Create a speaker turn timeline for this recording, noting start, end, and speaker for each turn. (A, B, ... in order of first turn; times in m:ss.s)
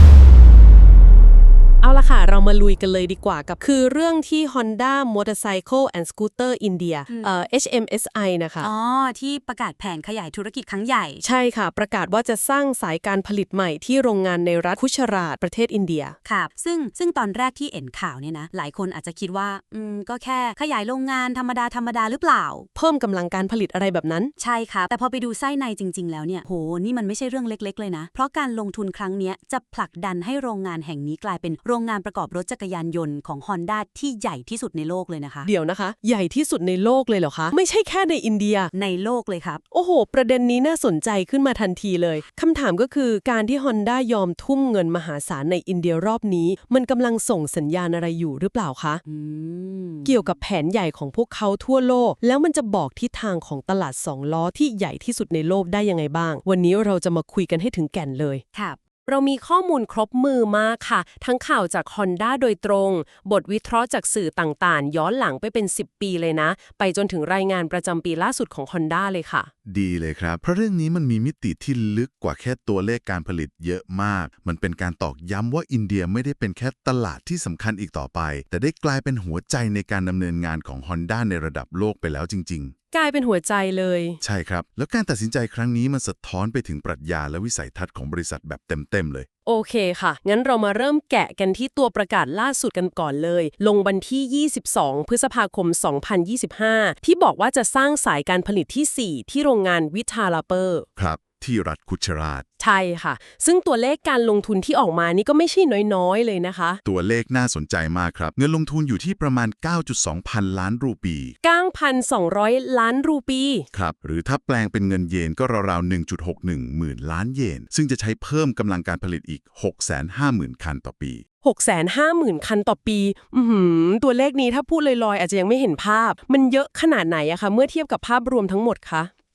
0:01.8-0:08.7 A
0:08.6-0:11.2 B
0:11.2-0:16.2 A
0:16.2-0:22.7 B
0:22.7-0:24.3 A
0:24.4-0:35.5 B
0:35.4-0:38.7 A
0:38.7-0:39.6 B
0:39.7-0:49.0 A
0:49.1-0:50.2 B
0:50.0-0:58.4 A
0:58.5-0:58.8 B
0:59.1-1:09.5 A
1:09.7-1:22.7 C
1:22.9-1:24.2 A
1:24.2-1:29.3 C
1:29.5-1:40.9 A
1:41.0-1:42.4 C
1:42.6-1:46.8 A
1:46.8-1:51.4 C
1:51.4-1:53.6 A
1:53.7-2:01.2 C
2:01.4-2:09.1 A